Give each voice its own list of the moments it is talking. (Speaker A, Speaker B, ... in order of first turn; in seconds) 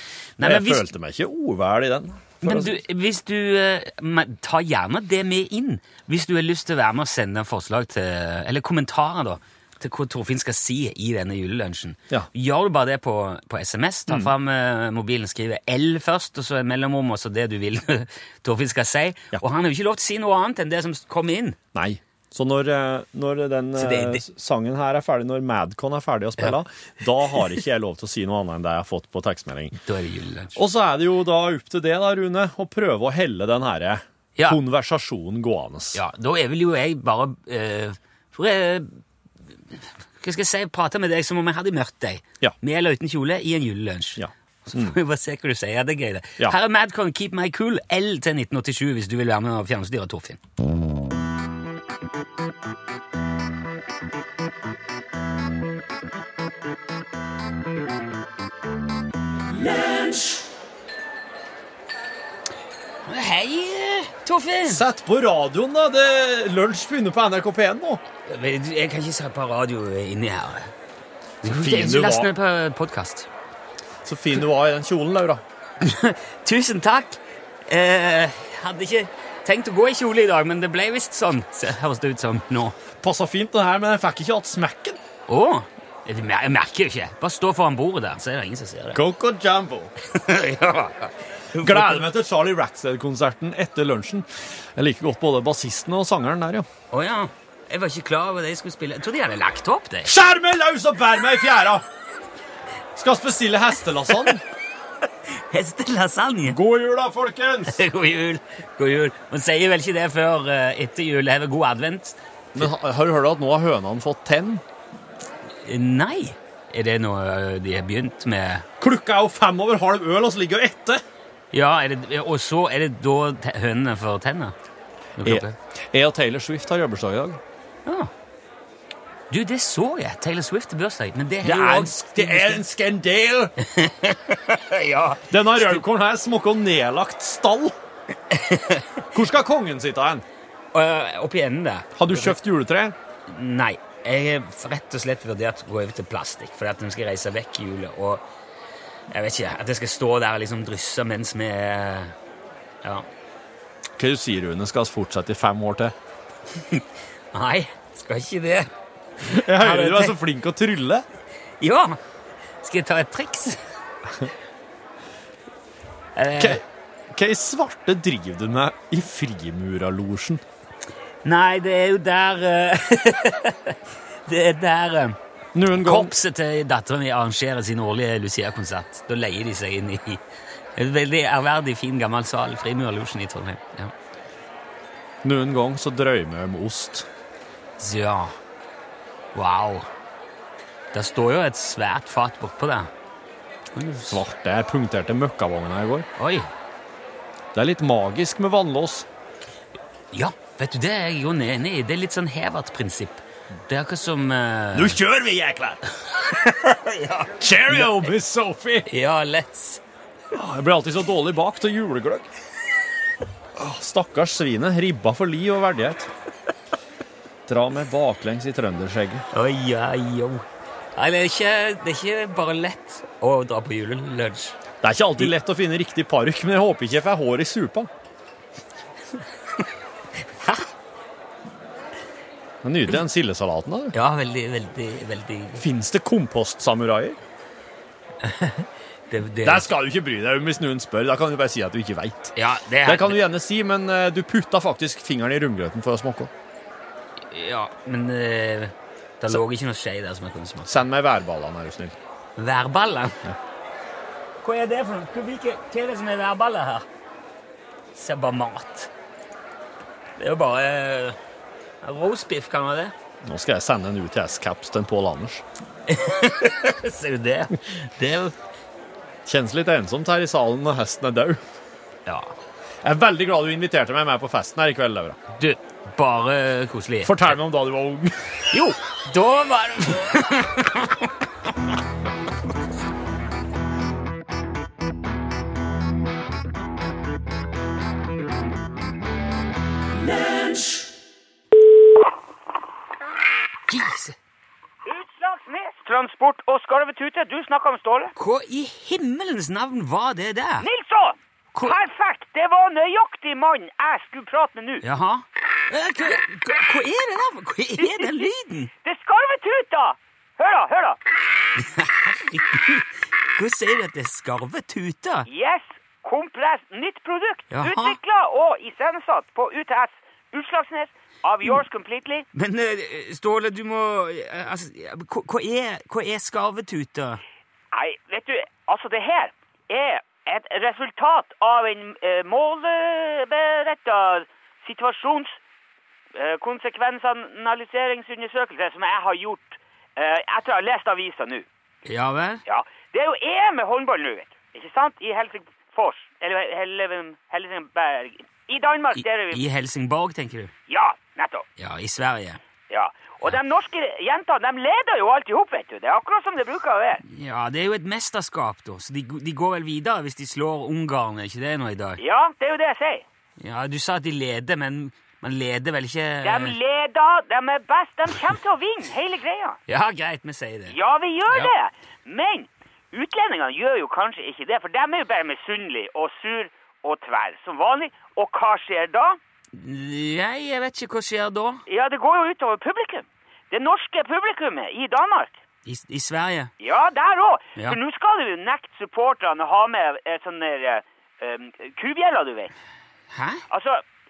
Speaker A: 0.4-0.9, 2.4-21.6, 23.8-24.2, 29.8-30.6, 35.9-39.0, 40.2-50.4, 63.0-64.8, 68.2-70.7, 71.4-73.3, 75.8-82.8, 85.3-89.0, 90.0-92.1, 96.9-100.1, 105.2-106.6, 107.7-112.7, 115.6-118.7, 121.5-124.5, 125.2-125.5, 127.8-128.1, 129.3-132.6, 133.6-135.8, 138.3-139.1, 140.7-142.4, 143.3-148.2, 149.1-152.1, 156.6-158.7, 159.2-160.2, 161.6-162.0, 162.6-163.6, 166.2-166.6, 171.2-175.2, 175.7-180.2, 180.8-183.9, 187.8-188.3, 189.3-189.9, 190.9-192.9, 193.7-194.2, 196.2-196.5, 200.1-205.0, 206.6-208.1, 208.8-209.8, 219.3-220.4, 220.9-224.5, 230.4-230.7, 233.9-235.6, 238.2-239.7, 242.3-243.2, 247.3-250.7, 252.4-253.3, 254.4-256.9, 257.9-258.9, 260.2-261.2, 261.8-262.9, 265.9-268.4, 272.1-272.3, 275.4-277.4, 278.5-281.1, 293.7-294.1, 298.1-300.7, 304.8-308.7, 311.6-315.3, 317.5-317.9, 322.3-327.2, 341.9-342.4, 348.9-350.5, 351.6-352.4, 357.0-362.0, 363.4-366.6, 369.7-370.8, 379.5-381.6, 385.6-386.5, 393.1-393.4
Speaker B: 0.4-2.8, 21.7-29.8, 30.6-36.0, 44.2-45.0, 64.7-68.0, 71.4-72.3, 74.0-75.4, 83.0-85.0, 88.9-89.9, 91.6-96.7, 100.0-101.8, 103.0-104.4, 106.5-107.8, 112.5-114.6, 118.8-121.0, 125.2-127.4, 131.4-133.5, 135.3-137.8, 139.1-140.2, 141.9-142.9, 154.0-155.9, 159.2-161.0, 166.3-170.4, 175.5-176.1, 185.2-187.1, 194.1-196.1, 197.5-199.1, 204.7-206.6, 207.4-208.9, 210.3-212.3, 213.6-216.1, 217.5-219.2, 224.8-227.9, 232.6-233.9, 235.6-237.2, 239.4-246.3, 250.7-251.9, 263.2-265.4, 269.2-271.4, 272.8-275.2, 277.0-278.6
Speaker C: 294.8-298.1, 300.6-304.8, 307.8-308.2, 308.8-311.0, 315.3-322.3, 327.7-335.4, 336.1-341.4, 342.4-349.4, 350.7-351.4, 352.7-357.0, 362.0-363.0, 366.2-369.6, 370.7-379.2, 381.7-385.4, 386.6-392.5, 393.5-393.8